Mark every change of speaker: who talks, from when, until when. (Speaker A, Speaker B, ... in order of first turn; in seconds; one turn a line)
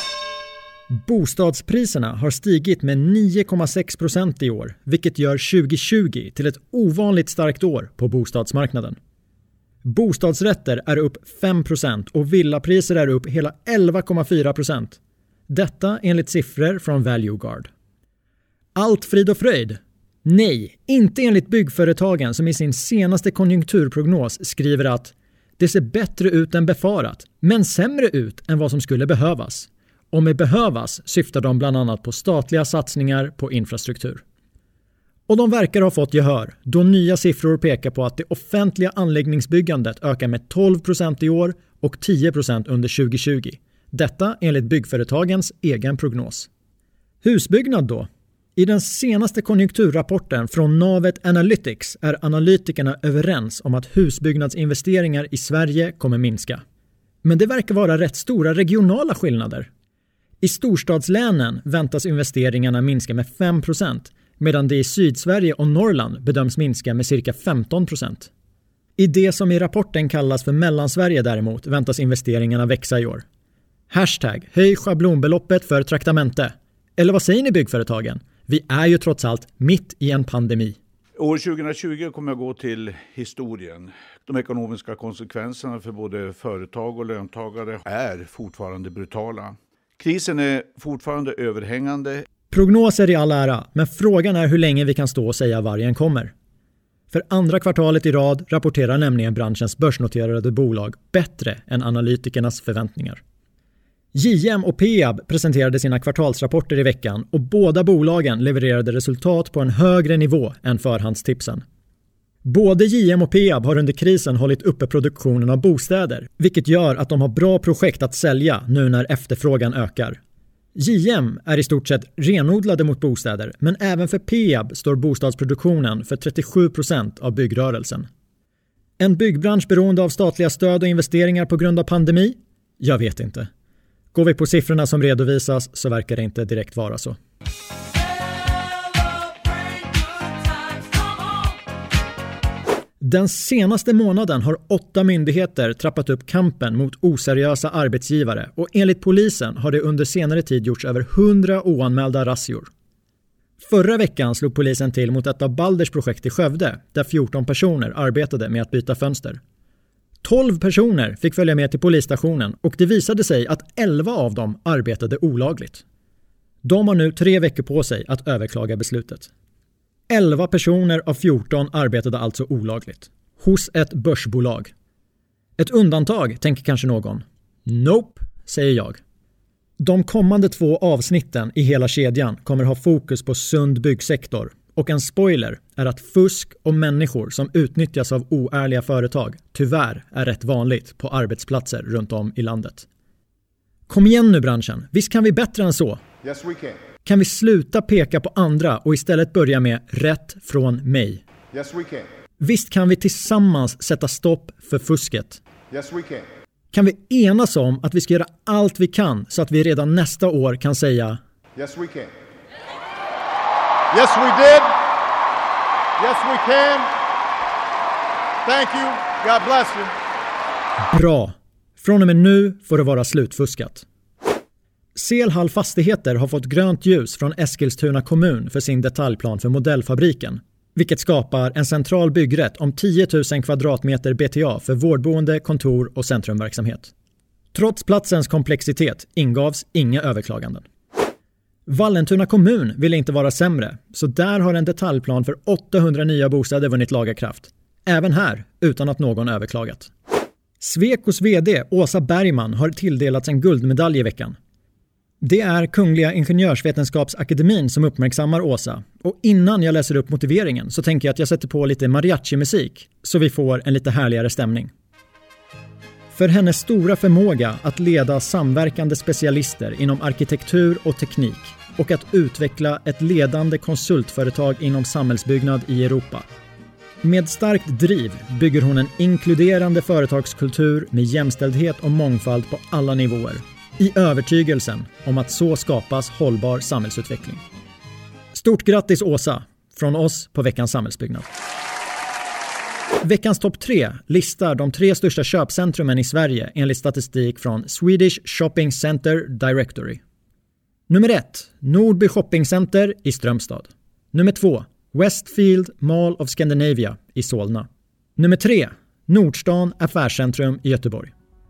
Speaker A: 0.9-9.0
Speaker A: 9.8-17.7
Speaker A: 18.7-34.2
Speaker A: 35.3-46.5
Speaker A: 47.2-56.6
Speaker A: 57.2-59.7
Speaker A: 60.4-68.3
Speaker A: 69.0-73.2
Speaker A: 73.9-80.8
Speaker B: 81.2-92.2
Speaker A: 92.5-96.3
Speaker A: 97.1-103.2
Speaker A: 104.1-111.6
Speaker A: 112.4-120.2
Speaker A: 120.8-128.1
Speaker A: 129.0-133.5
Speaker A: 134.1-137.2
Speaker B: 138.9-140.9
Speaker A: 143.0-152.7
Speaker A: 153.6-159.4
Speaker A: 160.2-165.8
Speaker A: 166.6-169.3
Speaker A: 170.1-174.7
Speaker A: 175.6-179.0
Speaker A: 179.8-192.9
Speaker A: 193.9-196.0
Speaker A: 197.0-201.2
Speaker A: 202.4-205.4
Speaker C: 205.8-206.2
Speaker A: 206.7-211.2
Speaker C: 211.6-212.1
Speaker C: 213.9-214.5
Speaker B: 214.4-214.7
Speaker C: 216.0-216.8
Speaker B: 218.5-218.8
Speaker C: 218.8-219.3
Speaker B: 219.3-219.9
Speaker A: 220.9-223.8
Speaker A: 224.9-236.9
Speaker A: 237.5-240.7
Speaker A: 241.7-249.9
Speaker A: 250.6-254.4
Speaker A: 255.2-264.7
Speaker A: 266.1-276.2
Speaker A: 277.0-287.4
Speaker A: 288.3-291.3
Speaker A: 293.0-300.0
Speaker A: 300.9-311.1